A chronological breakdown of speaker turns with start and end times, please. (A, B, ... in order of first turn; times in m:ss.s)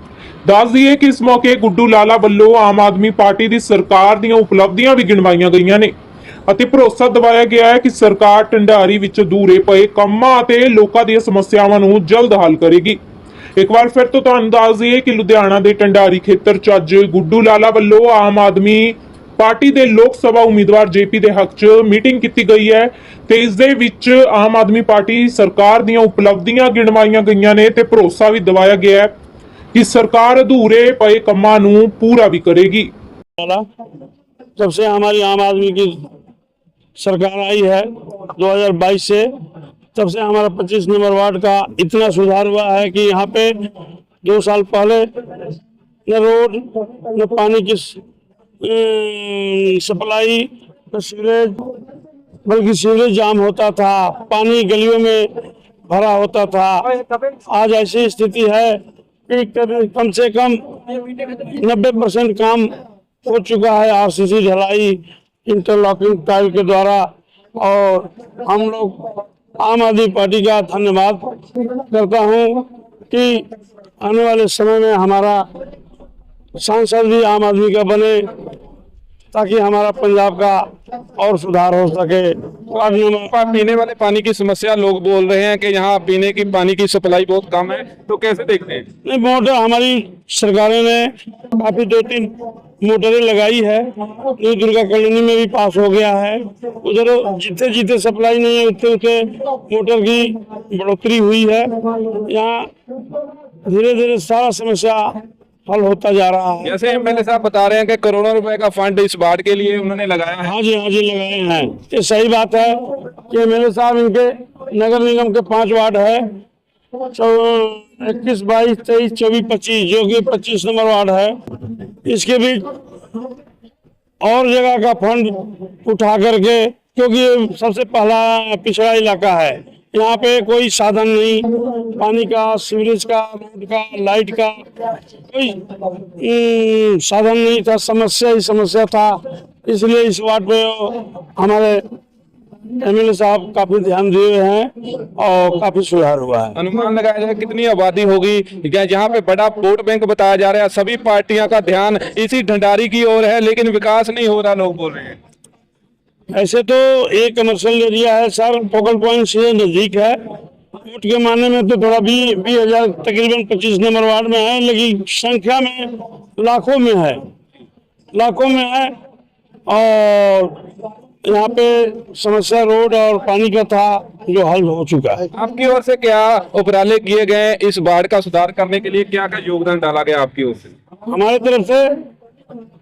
0:00.4-0:06.0 A
0:06.5-0:13.0 A
0:13.6-0:29.2 A
0:29.7-0:32.9 A
0:33.4-0:33.6 B
0:34.6-0:36.0 B
0:37.0-0:39.3 B
0:40.0-0:43.5 B
0:44.2-0:45.1 B
0:46.1-0:48.0 B
0:48.6-0:51.6 B
0:52.5-0:55.3 B
0:55.9-0:56.8 B
0:57.5-0:58.8 B
0:59.3-1:02.7 B
1:03.2-1:13.5 B
1:14.0-1:15.4 B
1:16.6-1:18.2 B
1:19.3-1:20.6 B
1:21.2-1:23.3 B
1:23.3-1:28.9 C
1:29.0-1:42.7 B
1:43.6-1:46.8 B
1:46.7-1:50.5 C
1:50.4-1:56.2 B
1:57.1-2:01.4 B
2:02.0-2:02.7 B
2:04.2-2:14.6 B
2:15.3-2:21.8 B
2:22.8-2:26.6 B
2:26.6-2:35.2 C
2:36.3-2:40.2 B
2:40.8-2:47.2 B
2:48.1-2:48.9 B
2:49.7-2:50.5 B
2:51.2-2:55.3 B
2:55.4-3:00.7 C
3:01.1-3:01.9 B